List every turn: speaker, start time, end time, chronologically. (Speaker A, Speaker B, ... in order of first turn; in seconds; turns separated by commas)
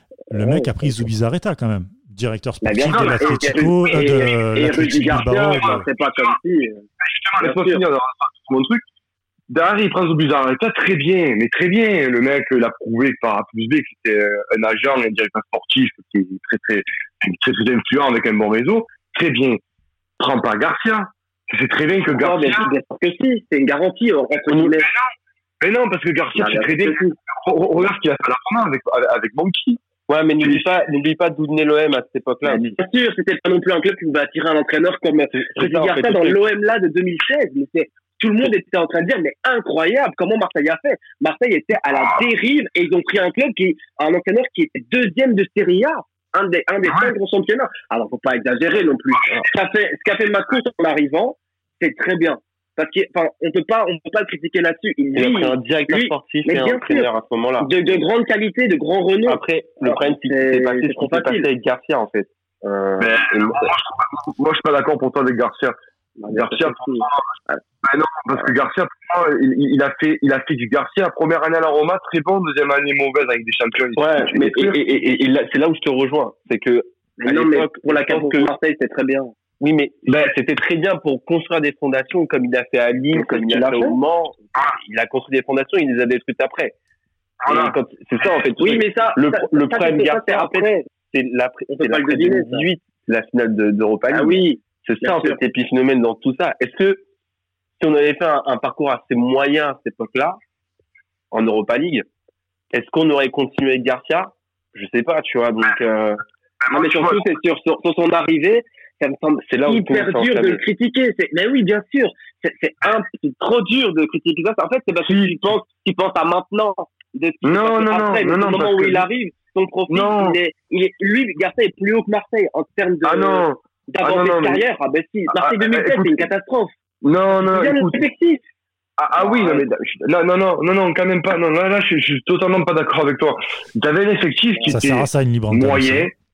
Speaker A: 0.3-5.8, Speaker B: 0.4-0.7, Speaker B: 2.6-6.8, Speaker C: 2.8-3.7, Speaker C: 4.8-6.3, Speaker C: 7.0-8.8, Speaker B: 7.4-7.8, Speaker C: 9.5-19.6, Speaker C: 20.2-22.7, Speaker B: 22.1-24.9, Speaker C: 24.5-29.8, Speaker B: 26.4-27.1, Speaker D: 30.1-32.8, Speaker B: 32.4-57.1, Speaker D: 35.3-36.4, Speaker C: 41.9-42.2, Speaker D: 55.1-57.7, Speaker B: 57.6-61.5, Speaker D: 59.2-63.7, Speaker C: 63.0-65.8, Speaker C: 66.3-67.3, Speaker B: 66.3-67.6, Speaker C: 67.8-74.8, Speaker D: 74.0-78.5, Speaker B: 77.2-79.3, Speaker D: 79.6-86.7, Speaker C: 80.1-80.3, Speaker B: 83.1-84.0, Speaker C: 87.4-87.8, Speaker D: 87.5-97.0, Speaker B: 88.6-90.8, Speaker B: 91.7-92.7, Speaker B: 94.1-95.4, Speaker D: 97.8-100.4, Speaker D: 101.3-102.0, Speaker D: 102.7-106.2, Speaker C: 106.6-107.2, Speaker B: 106.7-126.7, Speaker D: 109.5-110.6, Speaker C: 115.0-115.3, Speaker C: 117.4-119.1, Speaker C: 119.9-120.4, Speaker C: 123.0-124.6, Speaker C: 125.3-126.3, Speaker C: 127.0-128.0, Speaker B: 127.4-128.4, Speaker C: 129.0-136.1, Speaker B: 129.2-129.7, Speaker A: 134.7-136.1